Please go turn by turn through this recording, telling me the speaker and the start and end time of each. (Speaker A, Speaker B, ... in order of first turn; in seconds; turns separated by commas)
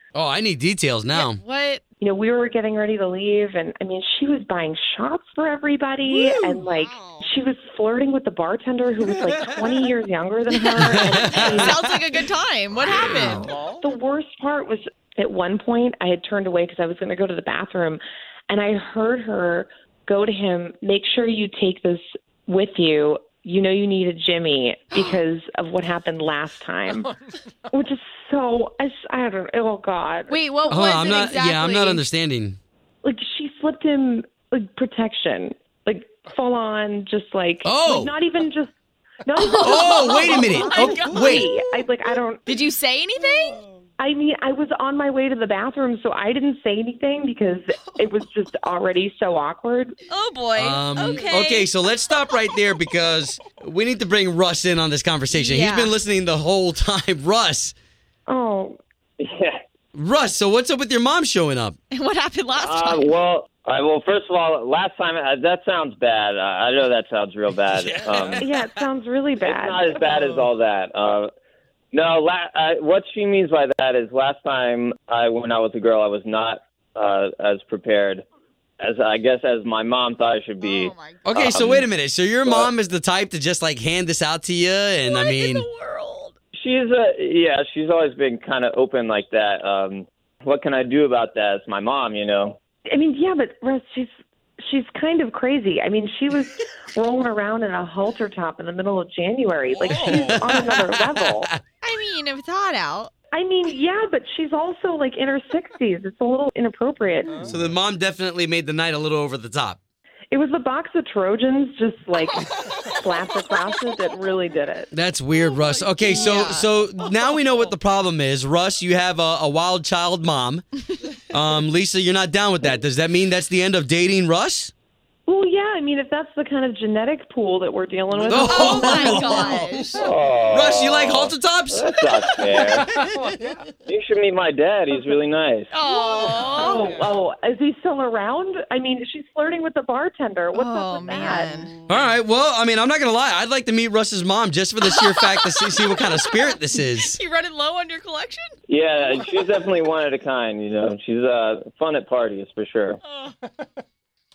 Speaker A: 0.1-1.4, Speaker B: 1.1-1.8, Speaker C: 2.0-11.8, Speaker B: 6.1-7.2, Speaker A: 10.8-11.8, Speaker B: 11.2-13.5, Speaker C: 13.1-27.1, Speaker C: 27.7-30.4, Speaker B: 30.3-32.0, Speaker A: 30.7-32.6, Speaker C: 33.0-38.7, Speaker A: 37.6-38.1, Speaker C: 39.2-42.4, Speaker B: 39.4-41.5, Speaker A: 39.6-41.5, Speaker B: 42.5-43.6, Speaker C: 44.0-50.0, Speaker B: 50.1-52.3, Speaker A: 50.6-57.7, Speaker B: 55.3-56.0, Speaker C: 58.3-58.8, Speaker D: 59.2-59.6, Speaker A: 59.9-61.8, Speaker B: 61.9-63.1, Speaker D: 62.6-68.4, Speaker A: 67.9-68.4, Speaker C: 68.4-70.0, Speaker D: 69.4-71.3, Speaker D: 71.9-78.2, Speaker D: 78.8-81.9, Speaker B: 80.6-81.4, Speaker A: 81.2-85.7, Speaker D: 82.4-82.7, Speaker B: 85.0-86.3, Speaker D: 86.5-92.6, Speaker C: 92.9-101.5, Speaker A: 99.8-100.8, Speaker B: 101.8-103.1, Speaker C: 103.3-107.5, Speaker A: 107.5-109.8, Speaker C: 110.3-114.9, Speaker A: 114.9-120.7, Speaker B: 115.4-116.7, Speaker A: 121.3-124.7, Speaker C: 125.3-129.6, Speaker A: 128.2-131.8, Speaker B: 128.4-129.9, Speaker D: 129.9-132.9, Speaker D: 133.8-135.7, Speaker B: 135.7-136.8, Speaker C: 136.2-141.5, Speaker B: 140.5-141.8, Speaker A: 141.9-147.2, Speaker B: 144.8-148.5, Speaker D: 148.7-153.0